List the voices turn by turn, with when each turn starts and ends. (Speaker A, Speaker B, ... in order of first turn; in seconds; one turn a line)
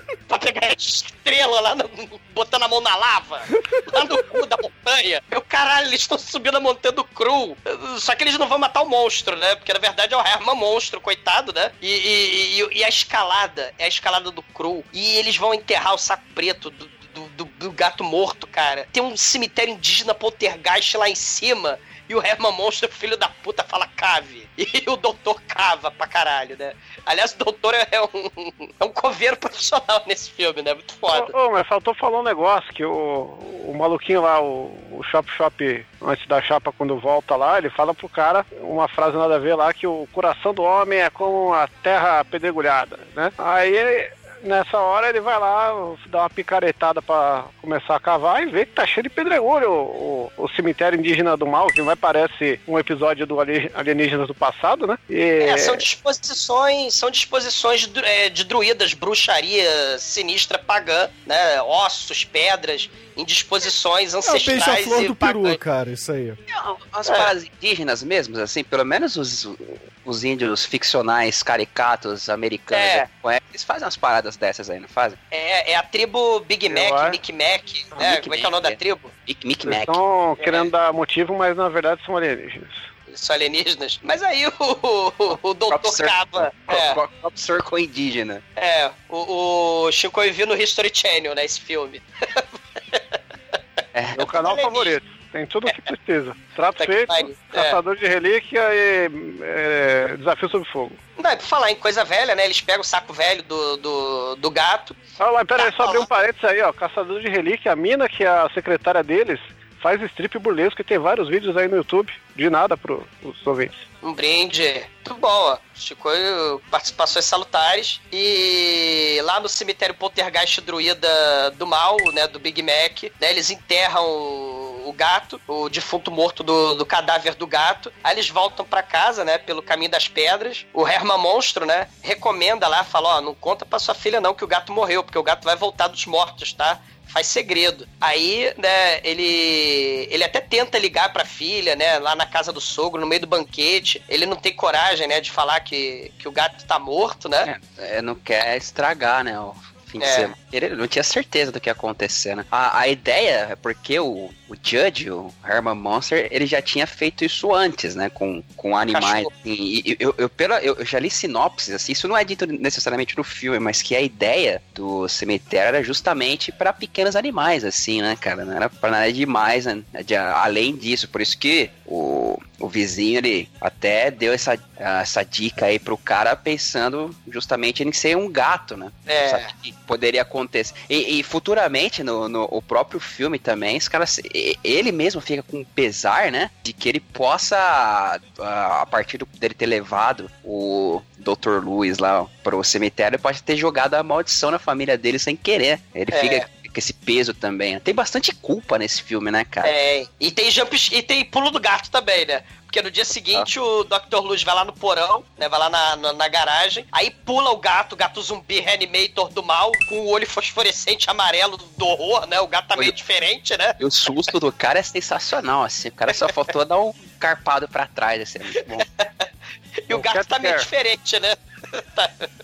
Speaker A: 0.3-31.3
Speaker B: 31.1-55.8
Speaker A: 55.4-65.6
Speaker C: 64.2-66.4
Speaker D: 66.5-75.2
Speaker A: 67.0-67.3
Speaker A: 72.7-73.1
Speaker A: 75.3-79.1
Speaker B: 76.7-77.2
Speaker D: 78.0-80.0
Speaker B: 79.6-82.9
Speaker A: 80.4-80.7
Speaker A: 83.1-87.0
Speaker D: 85.7-88.4
Speaker A: 88.6-93.0
Speaker D: 93.9-94.2
Speaker B: 94.2-101.0
Speaker A: 94.2-95.0
Speaker A: 96.8-97.8
Speaker A: 101.2-105.0
Speaker B: 105.2-113.8
Speaker A: 105.5-106.1
Speaker A: 114.0-147.5
Speaker D: 147.4-199.7
Speaker A: 150.0-150.3
Speaker A: 158.9-159.3
Speaker A: 179.1-179.5
Speaker A: 196.1-196.4
Speaker A: 199.6-213.8
Speaker D: 213.8-218.8
Speaker A: 219.8-222.2
Speaker B: 219.9-220.7